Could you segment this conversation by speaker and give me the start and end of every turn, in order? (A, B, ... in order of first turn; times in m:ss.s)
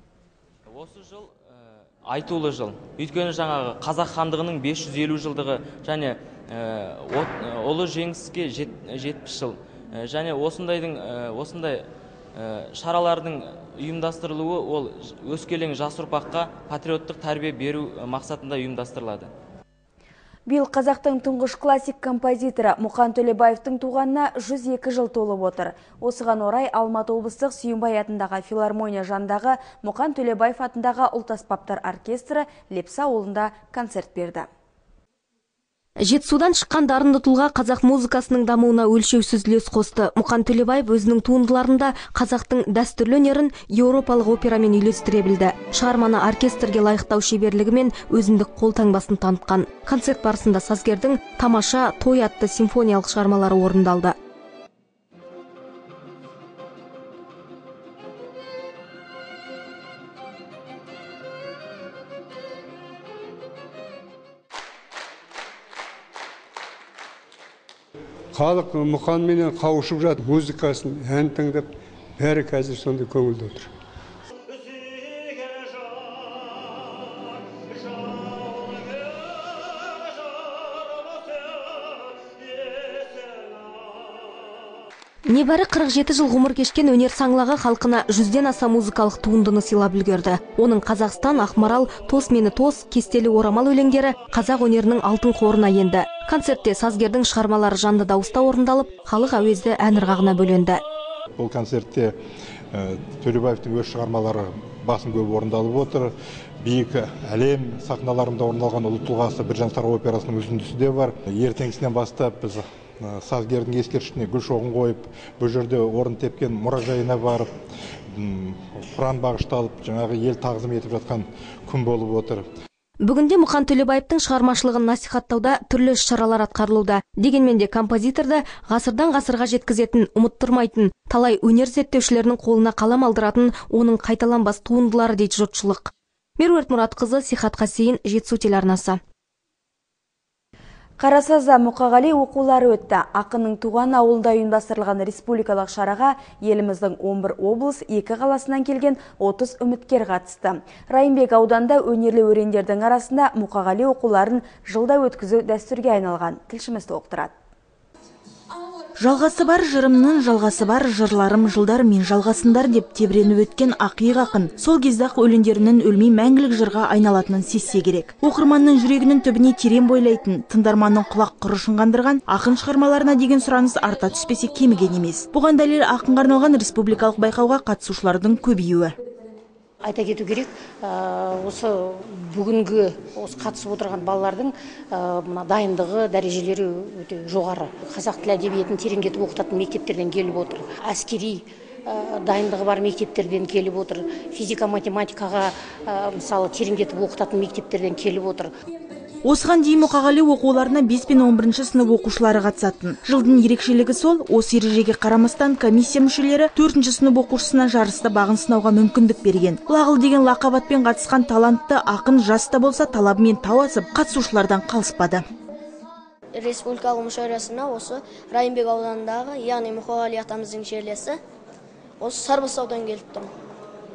0:00.7-0:19.3 A
0:20.5-0:34.5 B
0:36.0-0:54.2 C
1:08.3-1:11.6 D
1:12.2-1:13.6 D
1:25.2-1:40.8 C
1:41.4-1:42.2 E
1:42.7-1:57.5 E
1:58.1-2:02.4 E
2:03.0-2:19.0 C
2:21.0-2:37.3 B
2:39.0-2:58.9 F
2:59.8-3:18.5 G
3:19.2-3:35.2 F
3:36.3-3:41.2 H
3:42.0-3:43.3 H